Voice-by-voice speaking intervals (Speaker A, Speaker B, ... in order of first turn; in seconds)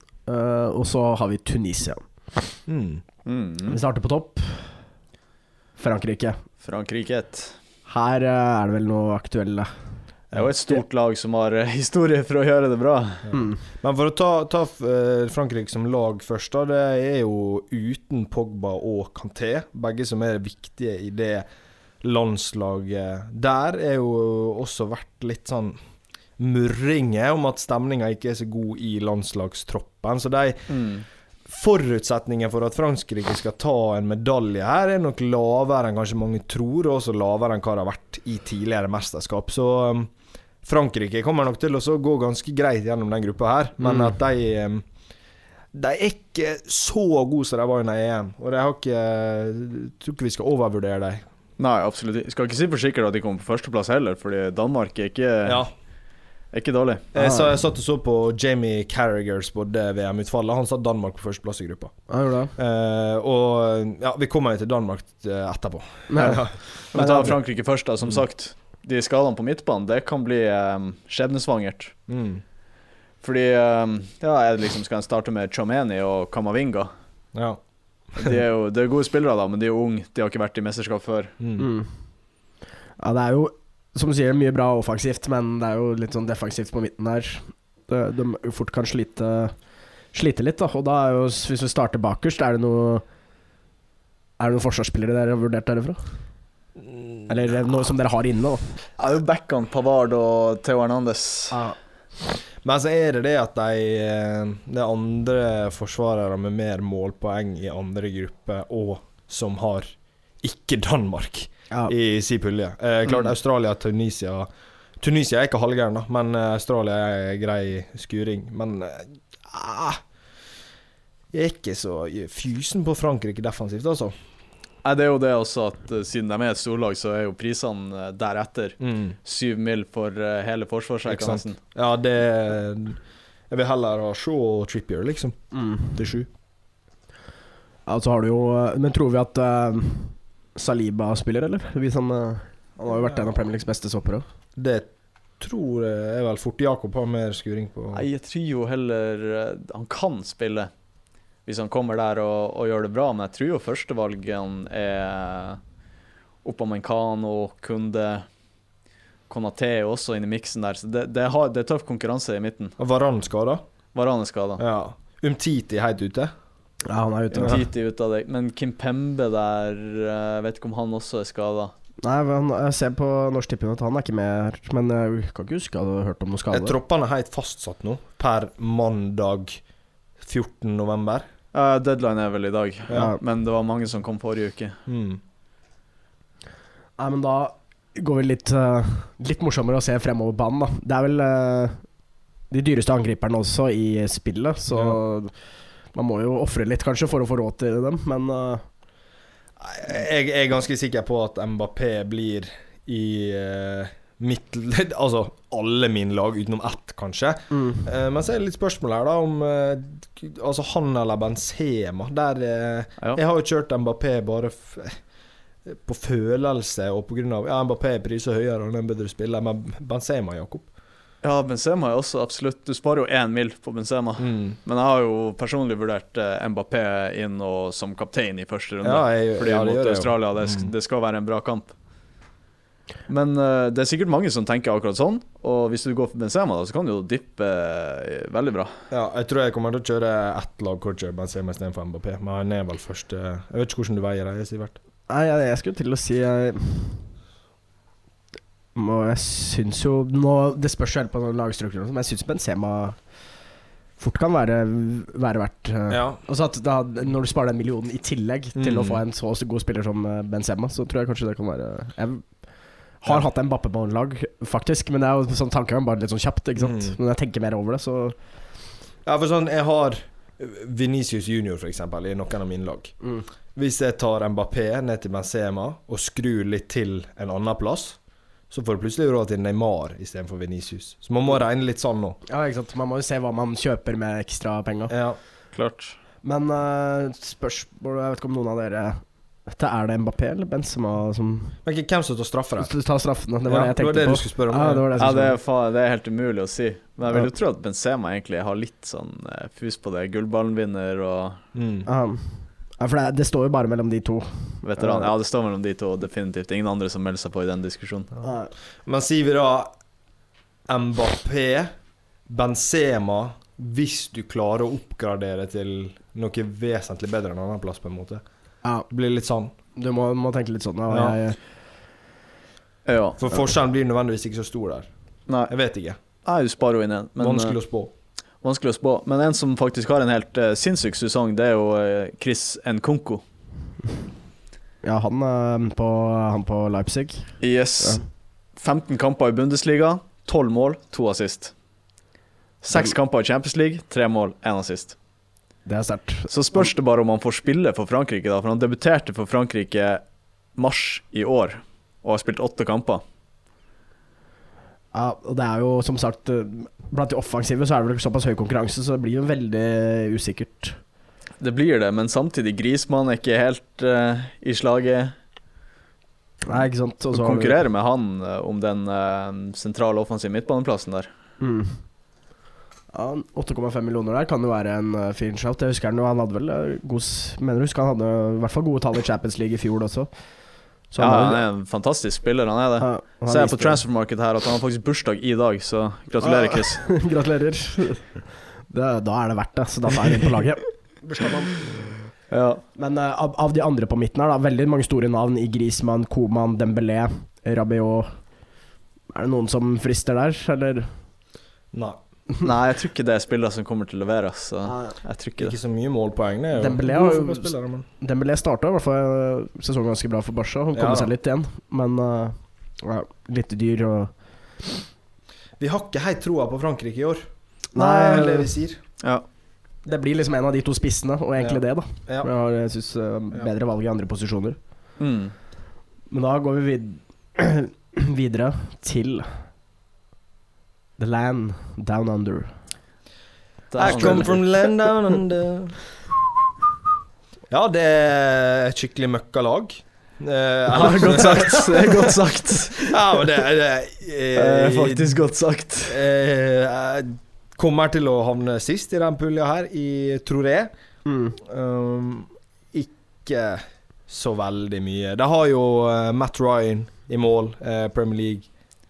Speaker A: 0.2-2.3, 3.7-4.8, 5.8-6.4, 7.8-9.7, 13.3-13.6, 43.8-44.1, 57.1-57.5, 62.1-62.5, 66.1-67.4, 81.6-81.9, 83.0-93.0, 94.4-96.0, 97.3-98.7, 135.5-136.2, 137.9-144.2, 166.9-167.6, 172.0-176.8, 182.9-183.2, 187.0-191.9, 192.5-195.4, 195.9-198.7, 207.5-207.8, 245.1-247.0, 248.7-253.4, 254.0-268.2, 282.3-284.9, 286.2-291.6, 292.6-295.4, 301.9-305.1, 308.2-308.5, 319.7-321.4, 334.8-338.0, 342.7-342.9, 345.6-346.7, 354.9-360.8, 366.4-367.6, 371.4-371.9, 372.9-381.4, 382.8-383.8, 386.2-391.5, 392.7-398.4, 399.1-400.9, 404.6-405.0, 406.6-414.1, 417.7-418.5, 419.9-424.6, 426.1-429.3, 431.0-432.6, 433.8-434.4, 440.7-442.9, 451.0-451.4
Speaker B: 2.7-3.0, 13.3-21.4, 22.0-25.8, 26.4-30.9, 31.5-40.1, 40.6-44.9, 45.7-51.2, 55.4-55.7, 57.1-62.0, 62.5-66.7, 72.1-72.4, 77.3-77.6, 81.4-81.7, 96.8-97.3, 102.6-109.9, 110.4-114.5, 115.0-120.0, 121.3-124.1, 128.8-129.2, 131.1-135.4, 144.6-148.1, 162.8-163.6, 164.6-166.3, 176.5-179.6, 180.2-181.2, 184.9-185.2, 194.7-195.0, 199.6-215.0, 215.7-220.7, 224.2-224.6, 228.8-230.7, 238.9-244.8, 255.9-256.2, 258.5-259.0, 266.6-267.0, 269.0-272.9, 273.5-278.0, 278.5-282.2, 284.9-285.2, 291.6-292.7, 293.4-294.9, 301.5-301.9, 308.8-309.7, 310.7-311.7, 312.3-318.2, 318.9-319.5, 320.9-321.2, 323.2-324.9, 325.5-326.0, 327.2-327.9, 401.7-402.0, 405.4-407.9, 410.7-411.1, 415.6-418.8, 421.4-422.3, 433.8-435.8, 437.5-445.2, 445.9-450.7, 451.4-458.5
Speaker C: 3.2-3.8, 6.6-7.5, 10.3-13.3, 30.7-31.1, 51.6-55.6, 56.5-57.0, 66.9-71.9, 73.2-76.9, 78.2-81.3, 99.0-101.6, 124.8-131.6, 147.9-150.7, 151.4-155.6, 156.4-158.3, 159.3-162.7, 163.9-164.6, 167.3-171.7, 181.5-184.8, 221.2-231.7, 233.1-238.7, 285.5-286.0, 295.0-301.4, 304.6-308.1, 322.8-323.2, 325.3-325.5, 326.2-327.6, 328.4-333.2, 337.4-341.5, 342.6-345.0, 346.3-350.0, 350.5-353.0, 361.4-365.1, 366.5-371.1, 381.0-386.9, 392.3-392.6, 402.4-405.5, 425.0-425.3, 433.7-434.4, 444.3-446.0